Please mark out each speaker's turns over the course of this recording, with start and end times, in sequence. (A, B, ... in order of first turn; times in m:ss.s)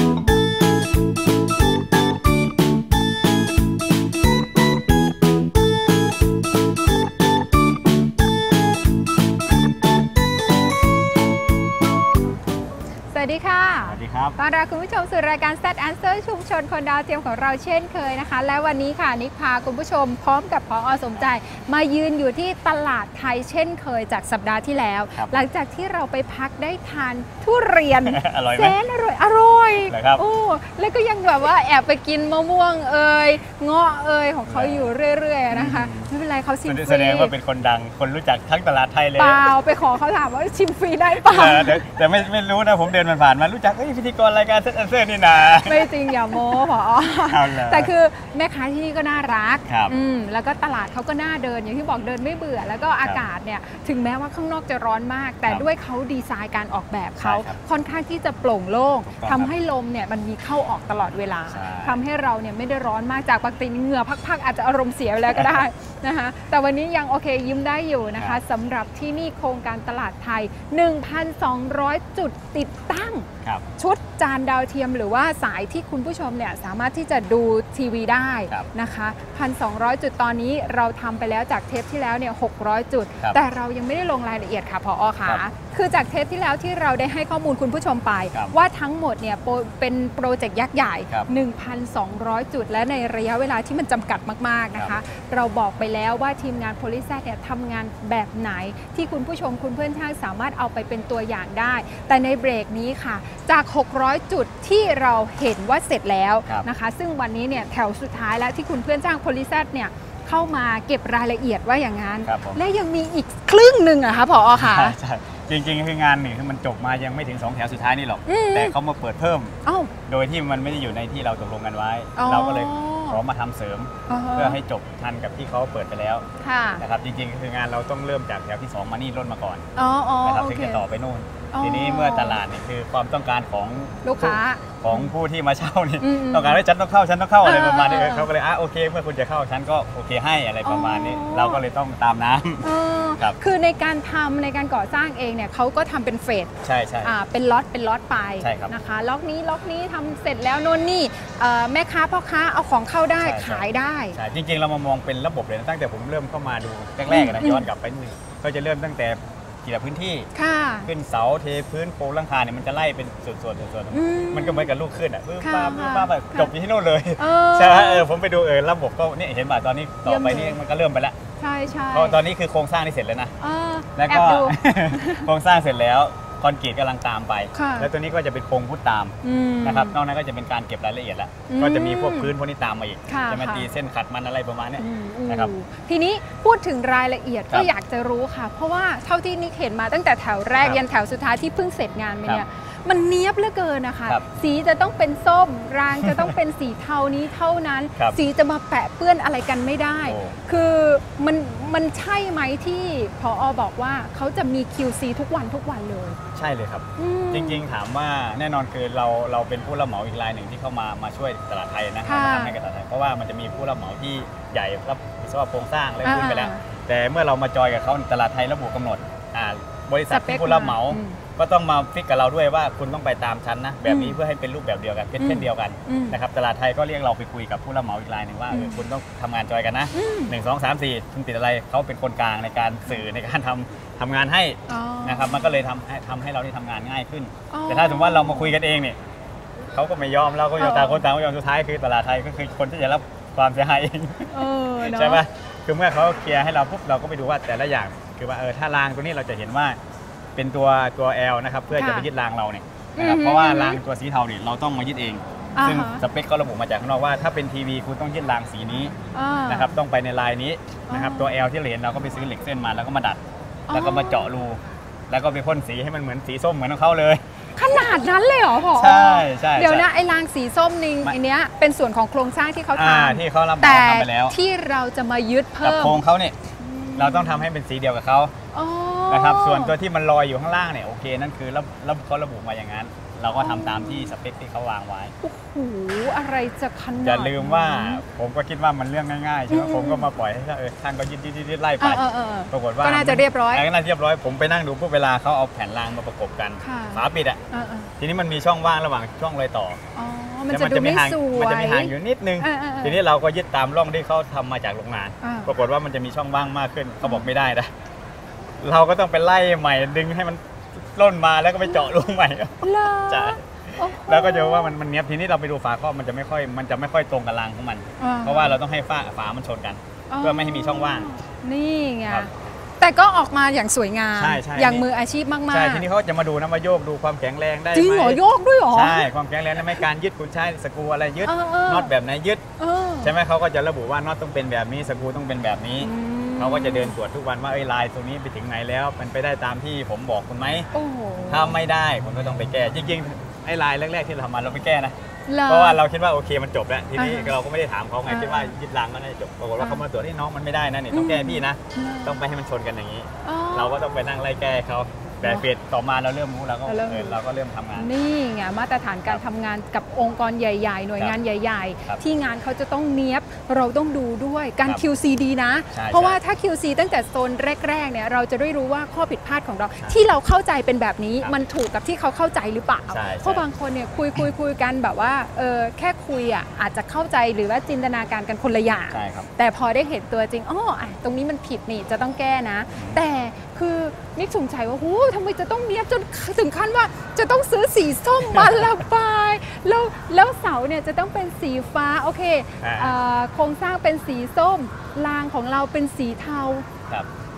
0:13.1-0:37.3 A
0:13.8-0:14.4 B
0:25.1-0:25.5 B
0:28.0-0:28.8 B
0:29.9-0:30.2 B
0:34.5-0:34.9 B
0:35.5-0:36.1 B
0:36.6-0:39.4 B
0:39.2-0:41.8 A
0:41.2-0:45.9 B
0:45.6-1:55.0 A
0:47.3-0:47.9 B
0:49.7-0:49.9 B
0:57.2-0:57.6 B
0:59.1-0:59.5 B
1:01.5-1:02.0 B
1:05.3-1:05.6 B
1:52.2-1:52.6 B
1:54.5-1:59.5 B
1:58.3-1:58.7 A
1:59.6-1:59.9 A
2:00.1-2:06.2 B
2:02.2-2:03.2 A
2:04.1-2:04.6 A
2:06.4-2:06.8 A
2:06.8-2:09.6 B
2:09.8-2:10.8 A
2:10.2-2:23.4 B
2:11.5-2:12.4 A
2:14.0-2:15.1 A
2:16.0-2:16.6 A
2:17.4-2:18.3 A
2:20.6-2:21.6 A
2:22.6-2:26.5 A
2:26.6-2:27.1 B
2:27.0-2:34.2 A
2:28.4-2:28.7 B
2:33.2-2:40.3 B
2:37.1-2:37.7 A
2:40.3-2:40.9 A
2:40.8-2:51.2 B
2:43.9-2:44.7 A
2:45.4-2:46.5 A
2:47.2-2:48.1 A
2:50.0-2:50.6 A
2:51.4-2:52.2 A
2:51.9-2:53.3 B
2:53.4-2:55.3 A
2:54.0-3:05.5 B
2:57.5-2:57.9 A
2:59.2-3:00.0 A
3:01.5-3:02.3 A
3:03.1-3:03.6 A
3:04.8-3:26.2 A
3:10.6-3:10.8 B
3:16.0-3:16.3 B
3:20.0-3:20.4 B
3:26.4-3:59.0 B
3:27.0-3:27.6 A
3:32.0-3:32.5 A
3:36.0-3:36.6 A
3:40.1-3:41.2 A
3:43.8-3:44.2 A
3:45.2-3:46.2 A
3:48.5-3:48.8 A
3:49.9-3:50.3 A
3:54.7-3:55.6 A
3:57.5-3:58.5 A
3:59.7-4:09.8 B
4:00.6-4:01.0 A
4:04.3-4:05.2 A
4:10.4-4:18.9 B
4:11.7-4:12.1 A
4:13.0-4:13.8 A
4:15.6-4:16.0 A
4:19.1-4:19.8 A
4:19.5-4:27.2 B
4:20.9-4:21.3 A
4:23.7-4:24.3 A
4:27.6-4:36.0 A
4:28.7-4:29.9 B
4:32.7-4:34.4 B
4:35.6-4:36.4 B
4:36.6-4:37.5 A
4:37.0-4:38.3 B
4:38.5-4:39.7 A
4:39.1-4:45.1 B
4:43.4-4:44.1 A
4:45.2-4:48.0 A
4:47.0-4:57.4 B
4:49.5-4:50.1 A
4:51.8-4:53.6 A
4:56.6-4:57.9 A
4:58.0-4:59.8 B
4:59.9-5:03.0 A
5:00.5-5:07.7 B
5:05.2-5:05.5 A
5:08.6-5:21.1 B
5:12.6-5:14.8 A
5:18.0-5:18.6 A
5:20.1-5:25.8 A
5:24.1-5:24.8 B
5:25.5-5:32.4 B
5:27.7-5:29.1 A
5:31.2-5:31.9 A
5:32.6-5:33.1 A
5:33.0-5:40.7 B
5:35.8-5:37.0 A
5:40.7-5:41.6 A
5:41.3-5:44.9 B
5:45.3-5:45.8 A
5:45.5-5:57.9 B
5:47.0-5:47.3 A
5:48.0-5:48.5 A
5:50.9-5:52.2 A
5:53.2-5:54.1 A
5:56.6-5:57.2 A
5:57.7-6:36.7 A
6:05.7-6:06.2 B
6:12.9-6:13.4 B
6:18.9-6:19.3 B
6:22.7-6:23.0 B
6:28.3-6:28.7 B
6:32.6-6:32.9 B